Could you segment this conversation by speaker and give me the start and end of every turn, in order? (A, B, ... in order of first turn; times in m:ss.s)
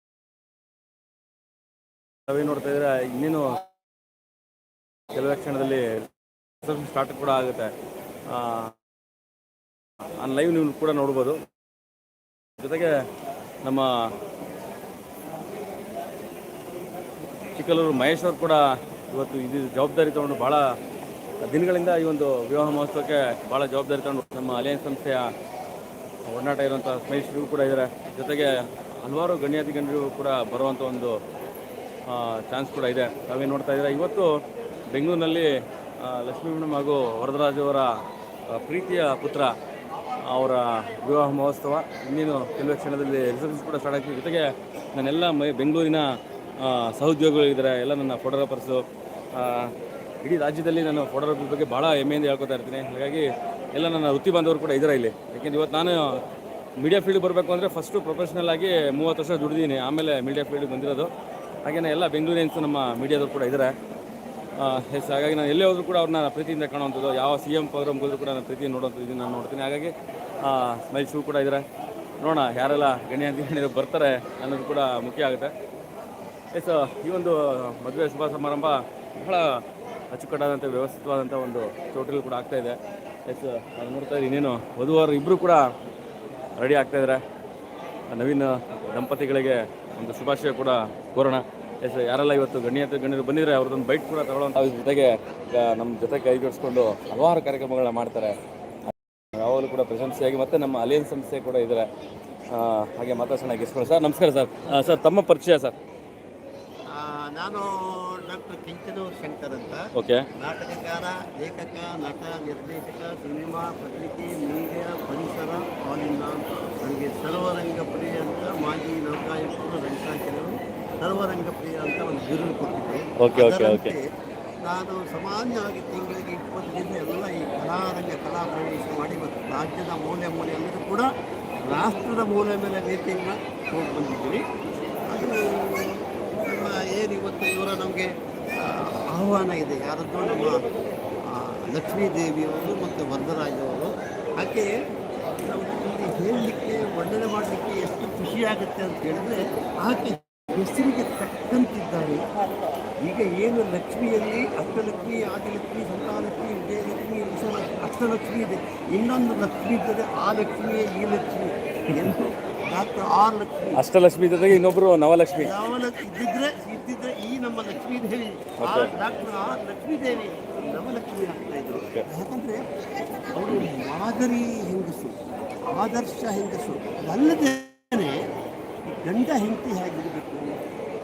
0:02.3-0:03.6 A
0:05.1-0:06.0 A
0:06.6-0:07.7 A
0:08.3-0:08.7 A
0:10.2-0:11.4 A
0:12.6-0:13.0 A
0:17.6-0:20.6 A
0:21.4-0:25.3 A
0:26.2-0:31.2 A
0:32.1-0:34.3 A
0:34.9-0:37.9 A
0:38.5-0:39.5 A
0:40.2-0:46.0 A
0:46.6-0:49.7 A
0:50.2-0:56.2 A
0:56.8-1:01.1 A
1:01.6-1:03.7 A
1:04.6-1:11.6 A
1:12.2-1:15.5 A
1:16.5-1:19.4 A
1:20.1-1:25.6 A
1:26.6-1:27.2 A
1:28.1-1:38.4 A
1:39.4-1:41.9 A
1:42.5-1:45.8 A
1:46.9-2:04.0 B
1:50.0-1:50.2 A
2:03.2-2:03.9 A
2:04.6-2:11.1 B
2:11.6-2:14.4 B
2:15.1-2:20.6 B
2:21.2-2:24.7 B
2:25.4-2:32.2 B
2:33.0-2:43.8 B
2:43.8-2:45.5 A
2:45.4-2:52.6 B
2:48.6-2:48.9 A
2:53.3-2:58.2 B
2:58.8-3:00.6 B